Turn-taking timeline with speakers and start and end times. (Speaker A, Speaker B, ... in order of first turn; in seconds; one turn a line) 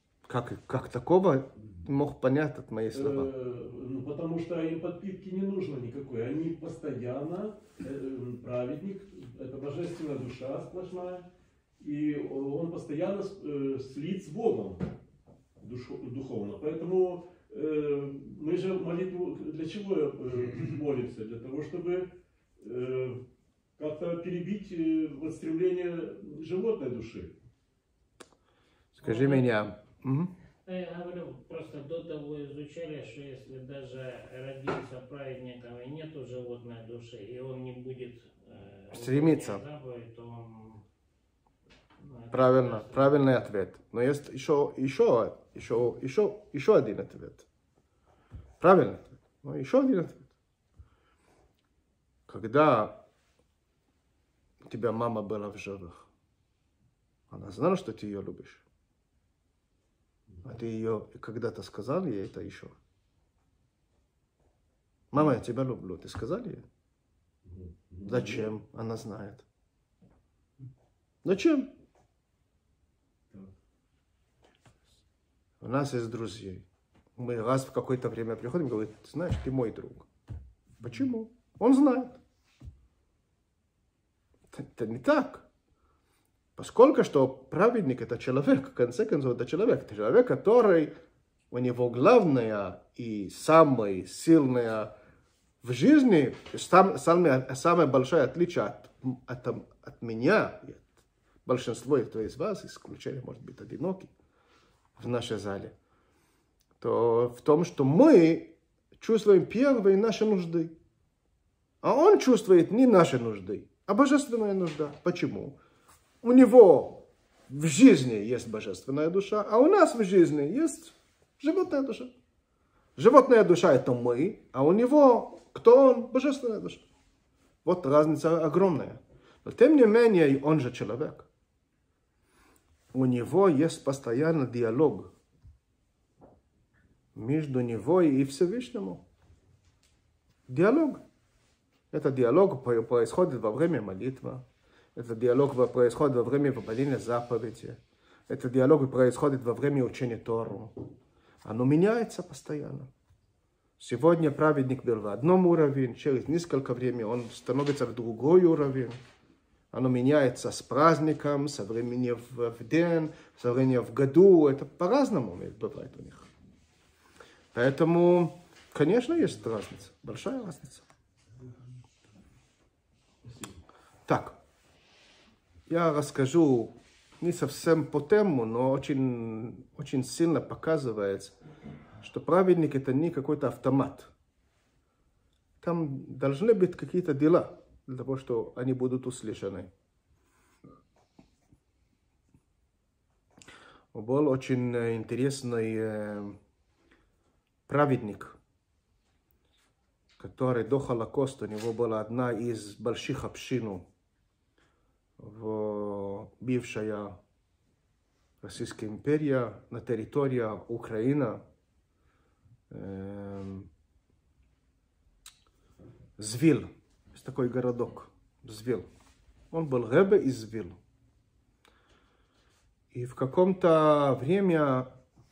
Speaker A: 0.3-3.3
Speaker B: 2.9-11.3
Speaker B: 11.8-14.9
Speaker B: 15.6-23.2
Speaker B: 23.8-27.4
Speaker A: 29.0-30.3
Speaker C: 29.0-29.5
Speaker C: 30.7-40.8
Speaker A: 38.9-39.6
Speaker C: 42.1-43.1
Speaker A: 42.3-47.5
Speaker A: 48.6-50.3
Speaker A: 52.3-53.0
Speaker A: 54.6-56.1
Speaker A: 57.3-58.6
Speaker A: 60.4-62.8
Speaker A: 65.1-66.7
Speaker B: 67.5-68.4
Speaker A: 68.0-69.5
Speaker A: 71.2-71.7
Speaker A: 75.6-76.7
Speaker A: 77.2-80.1
Speaker A: 80.8-82.2
Speaker A: 84.5-85.5
Speaker A: 86.6-90.9
Speaker A: 91.5-94.9
Speaker A: 95.6-100.9
Speaker A: 101.5-104.1
Speaker A: 105.0-105.7
Speaker A: 106.8-110.8
Speaker A: 111.8-115.6
Speaker A: 116.2-122.1
Speaker A: 123.0-126.8
Speaker A: 127.6-131.3
Speaker A: 132.9-135.1
Speaker A: 137.2-139.0
Speaker A: 140.5-141.0
Speaker A: 141.9-144.4
Speaker A: 144.9-150.7
Speaker A: 151.4-152.9
Speaker A: 153.8-159.0
Speaker A: 159.7-166.3
Speaker A: 167.5-170.8
Speaker A: 174.1-174.4
Speaker A: 175.7-181.3
Speaker A: 182.0-184.1
Speaker A: 185.6-189.7
Speaker A: 193.9-196.4
Speaker A: 197.7-198.4
Speaker A: 200.2-203.9
Speaker A: 205.2-207.2
Speaker A: 208.4-211.4
Speaker A: 212.7-213.7
Speaker A: 216.2-218.9
Speaker A: 219.5-220.8
Speaker A: 222.9-224.9